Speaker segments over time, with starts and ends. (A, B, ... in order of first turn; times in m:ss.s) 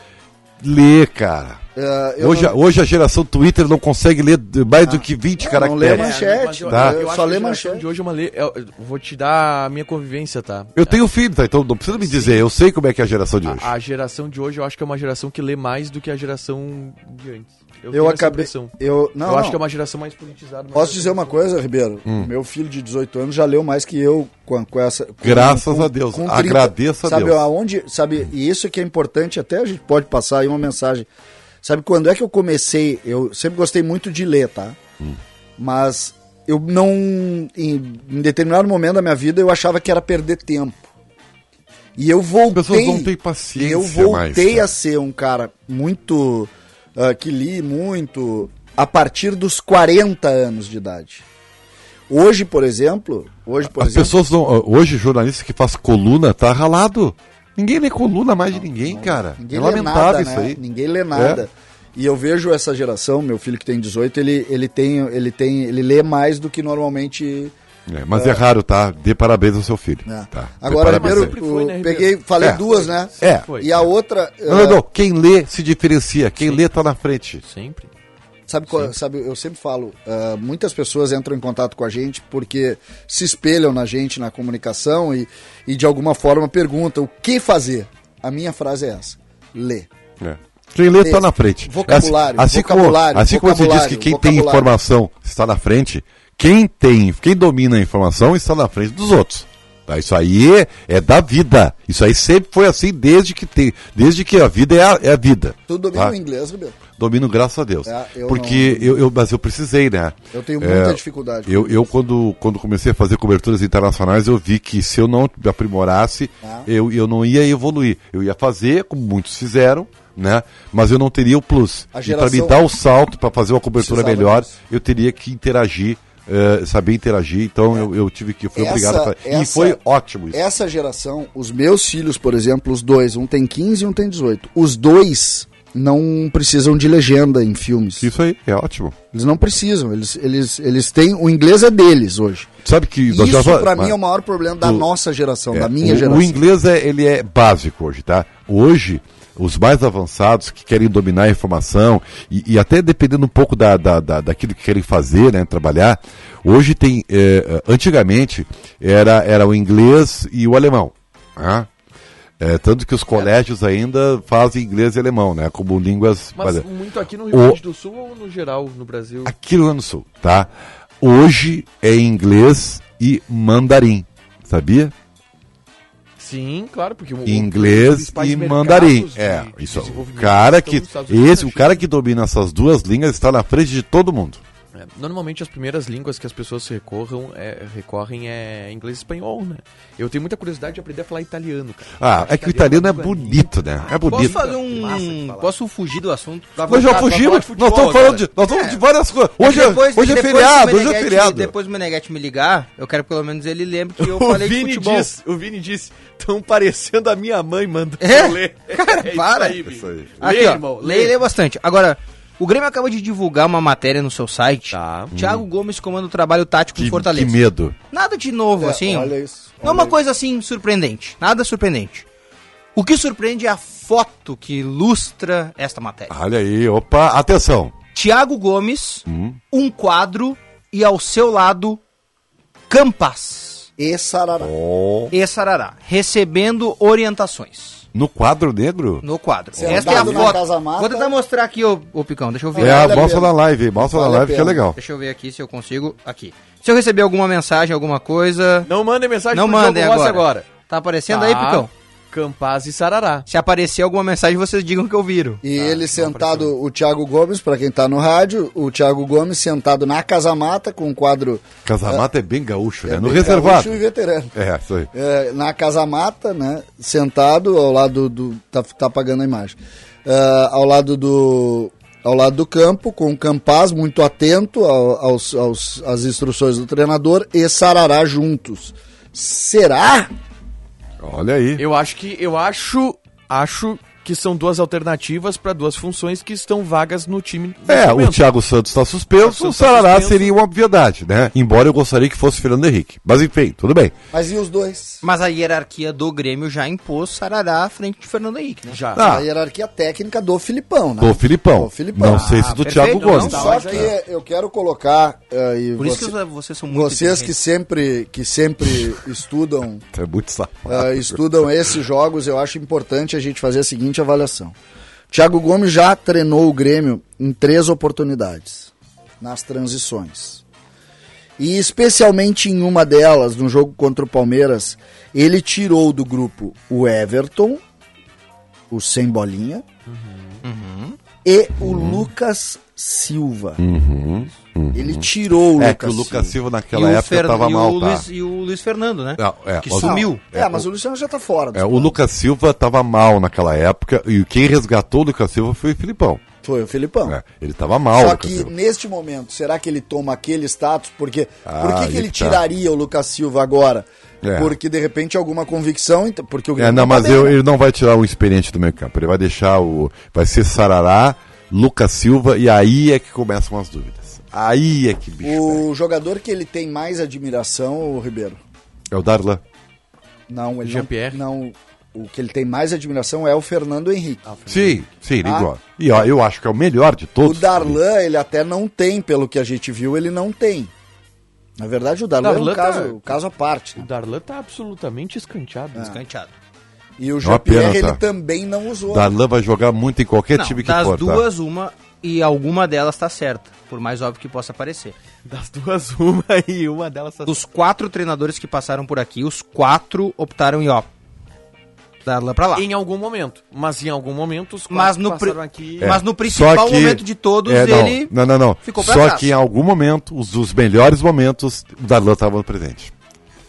0:00.6-0:01.6 A
0:01.8-0:02.6 B
0:02.2-0:06.1 A
0:04.8-0:07.8 B
0:05.8-0:11.0 C
0:06.0-0:06.4 D
0:06.7-0:07.0 A
0:10.8-0:13.7 A
0:11.9-0:12.5 C
0:13.4-0:18.7 C
0:17.9-0:19.6 B
0:19.2-0:21.6 C
0:20.7-0:31.1 B
0:25.2-0:27.4 A
0:31.6-0:34.8 B
0:35.6-0:40.9 B
0:42.0-0:51.2 B
0:42.6-0:44.7 A
0:52.1-0:54.2 B
0:53.7-1:00.6 A
0:58.7-1:07.5 B
1:01.2-1:01.4 A
1:07.9-1:11.4 A
1:08.1-1:08.4 B
1:10.1-1:14.8 B
1:10.9-1:13.7 C
1:13.2-1:13.6 A
1:14.5-1:17.4 A
1:16.4-1:16.6 C
1:17.4-1:17.9 C
1:18.5-1:29.9 B
1:30.2-1:46.1 A
1:31.0-1:34.7 B
1:45.7-1:46.8 B
1:46.8-2:10.4 A
1:47.9-1:49.0 B
1:50.3-1:51.9 B
1:56.4-1:56.7 B
2:01.9-2:02.6 B
2:03.8-2:04.5 B
2:08.6-2:09.8 B
2:10.3-2:18.1 B
2:18.0-2:19.0 A
2:19.1-2:22.5 B
2:22.6-2:24.0 A
2:23.1-2:26.4 B
2:24.6-2:24.9 A
2:25.5-2:41.7 A
2:42.4-2:46.7 A
2:46.4-2:49.4 C
2:47.3-2:47.6 A
2:49.2-2:54.9 A
2:56.2-3:01.9 C
2:57.3-3:04.4 A
3:04.7-3:15.5 C
3:12.0-3:14.4 A
3:14.1-3:16.8 D
3:16.6-3:18.3 C
3:16.7-3:21.5 A
3:18.5-3:18.8 D
3:19.4-3:25.1 D
3:24.0-3:31.2 C
3:28.0-3:29.6 D
3:29.7-3:30.2 A
3:30.2-3:42.1 D
3:34.7-3:35.1 C
3:35.1-3:35.4 A
3:36.8-3:37.8 A
3:38.6-3:40.0 B
3:42.8-3:46.1 D
3:46.1-3:47.8 A
3:48.0-3:51.8 D
3:49.1-3:49.4 A
3:52.7-3:53.7 D
3:53.8-3:54.5 B
3:54.4-3:55.1 A
3:55.1-3:57.9 D
3:57.9-3:59.0 A
3:59.0-4:03.2 D
3:59.6-4:00.4 A
3:59.6-4:01.1 B
4:02.6-4:04.8 A
4:02.6-4:04.7 B
4:04.8-4:08.7 D
4:08.7-4:10.5 C
4:09.3-4:11.7 D
4:11.1-4:13.3 C
4:13.3-4:15.4 D
4:15.4-4:22.1 B
4:15.5-4:16.5 C
4:21.6-4:23.8 A
4:22.9-4:24.4 B
4:24.4-4:24.9 A
4:24.9-4:40.1 B
4:41.0-4:41.6 A
4:41.6-4:48.2 C
4:47.7-4:53.9 A
4:49.2-4:50.3 C
4:54.1-4:55.0 B
4:55.0-4:58.8 D
4:58.7-4:59.1 C
4:59.0-4:59.2 A
4:59.0-5:02.5 B
5:01.0-5:03.9 A
5:02.0-5:03.7 D
5:02.9-5:03.9 C
5:03.2-5:06.2 B
5:05.8-5:07.4 D
5:06.7-5:09.8 B
5:09.9-5:11.3 A
5:10.7-5:14.6 B
5:15.1-5:20.4 B
5:21.4-5:27.6 B
5:28.7-5:29.6 B
5:29.9-5:30.4 C
5:30.4-5:31.0 D
5:31.2-5:33.6 B
5:31.6-5:32.0 A
5:33.6-5:38.1 A
5:34.7-5:36.4 B
5:36.7-5:40.2 D
5:39.2-5:40.6 A
5:39.8-5:42.0 B
5:41.6-5:46.2 A
5:46.4-5:47.2 B
5:47.1-5:48.5 A
5:48.0-5:57.4 B
5:51.4-5:52.4 A
5:54.2-5:54.6 A
5:56.6-6:05.6 A
6:05.2-6:08.4 B
6:08.9-6:09.4 A
6:10.3-6:14.2 B
6:10.6-6:11.2 C
6:14.2-6:14.9 C
6:14.5-6:17.8 A
6:15.2-6:16.1 B
6:17.2-6:20.7 B
6:21.6-6:23.8 B
6:22.2-6:23.2 C
6:23.8-6:25.9 C
6:25.8-6:26.4 D
6:27.0-6:29.1 B
6:27.2-6:28.0 A
6:28.9-6:31.3 A
6:30.4-6:35.0 D
6:35.3-6:37.4 C
6:37.3-6:40.9 D
6:42.0-6:42.7 D
6:42.6-6:46.0 C
6:44.7-6:49.3 D
6:45.8-6:52.9 A